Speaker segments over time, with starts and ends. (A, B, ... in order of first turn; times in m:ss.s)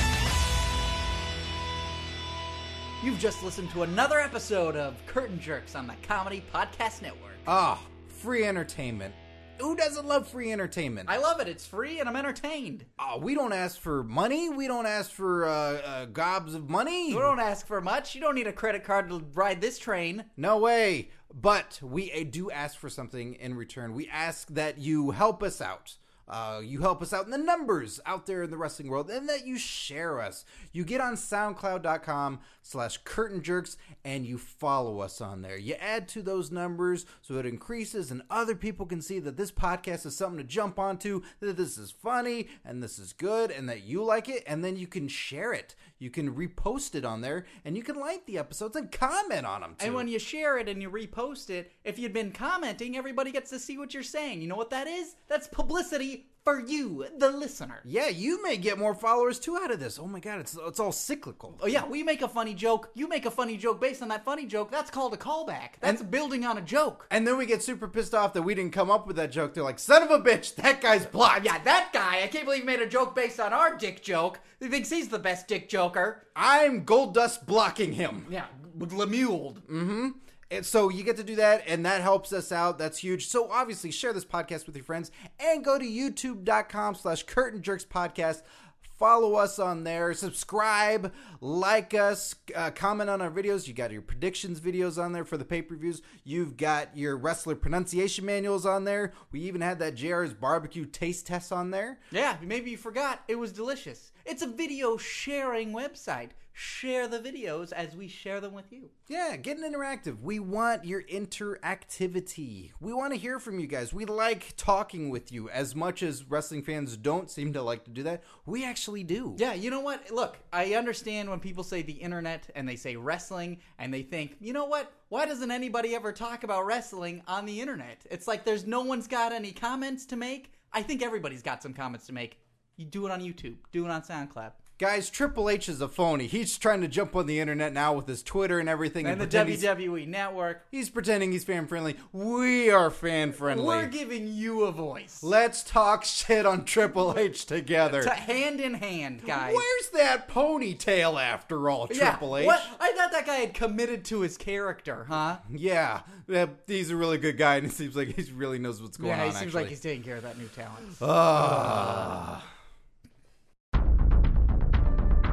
0:03.0-0:07.4 A
0:07.4-0:11.1 B
0:11.0-0:12.9 A
0:13.0-0:17.4 B
0:17.1-0:20.3 A
0:20.4-0:50.1 B
0:49.8-0:57.8 A
0:57.8-1:01.8 B
1:01.6-1:07.1 A
1:05.8-1:06.1 B
1:07.1-1:11.4 B
1:11.2-1:16.2 A
1:16.3-1:18.3 B
1:18.2-1:19.6 A
1:19.6-1:42.0 B
1:42.1-1:48.9 A
1:49.1-1:59.4 B
1:59.3-2:14.6 A
2:14.8-2:19.7 B
2:19.0-2:20.6 A
2:20.7-2:23.9 B
2:23.4-2:25.3 A
2:25.2-2:28.1 B
2:27.8-2:29.6 A
2:29.2-2:32.7 B
2:31.9-2:35.4 A
2:35.4-2:39.8 B
2:39.0-2:42.1 A
2:41.0-2:42.5 B